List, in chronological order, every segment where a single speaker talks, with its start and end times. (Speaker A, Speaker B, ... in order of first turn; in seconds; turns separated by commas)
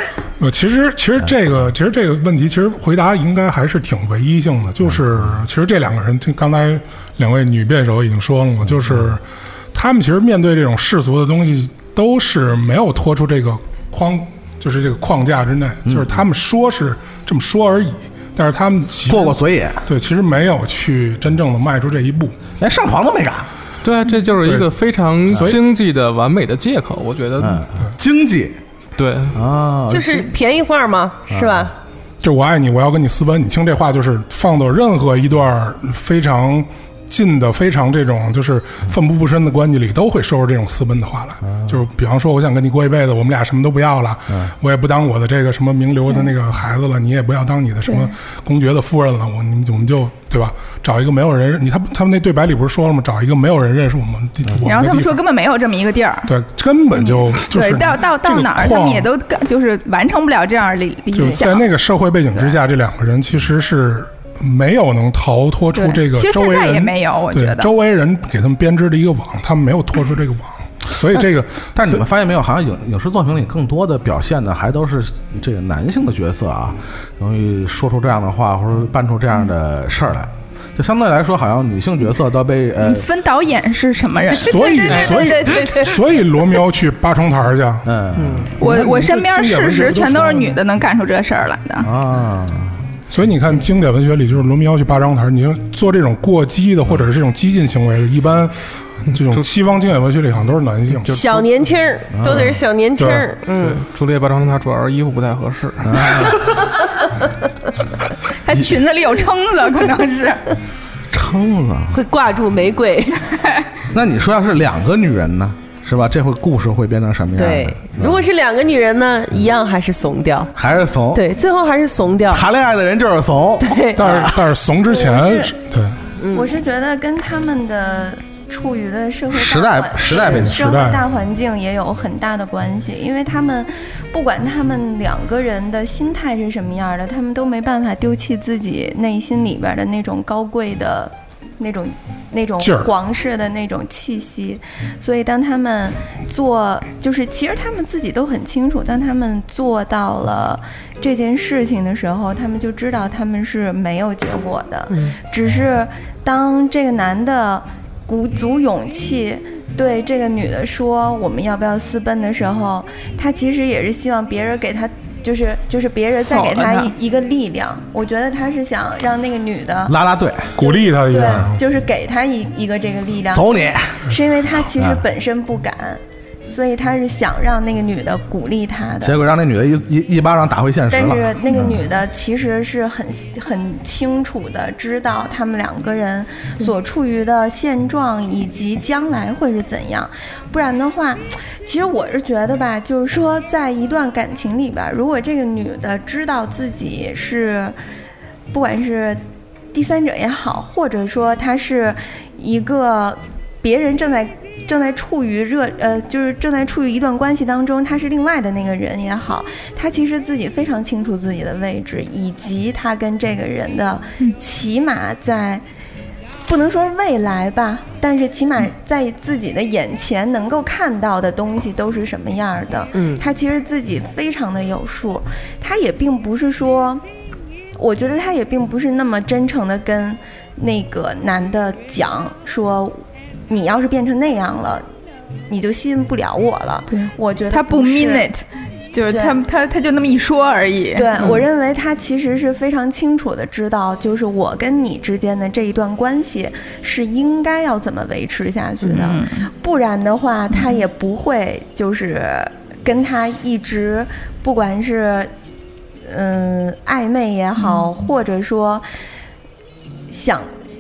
Speaker A: 0.4-9.2, Speaker A: 9.7-22.4, Speaker B: 19.1-19.9, Speaker B: 22.6-23.5, Speaker C: 23.8-27.6, Speaker A: 24.4-24.7, Speaker A: 25.3-25.6, Speaker B: 27.4-28.6, Speaker C: 29.0-29.4, Speaker B: 29.3-30.3, Speaker D: 29.9-31.8, Speaker B: 31.3-31.7, Speaker A: 32.2-55.2, Speaker B: 41.5-41.8, Speaker E: 54.6-56.3, Speaker A: 56.3-59.1, Speaker E: 57.0-61.7, Speaker A: 61.1-72.0, Speaker E: 65.7-67.7, Speaker B: 71.0-83.1, Speaker E: 82.8-85.3, Speaker A: 84.3-87.9, Speaker D: 84.7-86.0, Speaker B: 87.8-88.6, Speaker D: 88.2-88.5, Speaker A: 88.5-90.6, Speaker E: 88.6-91.9, Speaker B: 91.8-92.8, Speaker A: 93.1-98.6, Speaker A: 99.1-101.1, Speaker C: 99.1-99.5, Speaker D: 101.1-103.8, Speaker B: 102.1-102.6, Speaker A: 103.0-103.3, Speaker C: 103.5-106.4, Speaker B: 105.8-106.6, Speaker E: 108.4-110.5, Speaker B: 111.1-112.0, Speaker D: 111.9-113.4, Speaker B: 113.9-118.2, Speaker D: 117.4-120.5, Speaker B: 120.5-121.2, Speaker D: 121.1-122.5, Speaker B: 122.3-124.6, Speaker D: 123.6-124.0, Speaker A: 124.0-126.0, Speaker F: 124.8-125.5, Speaker D: 126.2-126.5, Speaker F: 126.3-169.9, Speaker B: 129.3-130.7, Speaker A: 130.5-131.0, Speaker A: 142.6-142.9, Speaker E: 166.2-166.9, Speaker B: 169.9-170.6, Speaker A: 170.6-171.6, Speaker F: 170.6-179.2, Speaker B: 173.3-174.1, Speaker B: 174.8-175.0, Speaker B: 179.0-181.8, Speaker F: 180.9-197.8, Speaker F: 198.5-199.2, Speaker F: 199.7-215.6, Speaker F: 216.5-227.0, Speaker D: 222.9-223.2, Speaker F: 227.8-234.8, Speaker F: 235.5-238.3, Speaker E: 236.9-241.4, Speaker F: 239.1-239.4, Speaker F: 241.0-255.3, Speaker E: 248.8-249.4, Speaker F: 256.1-258.9, Speaker E: 257.6-257.9, Speaker F: 260.1-260.5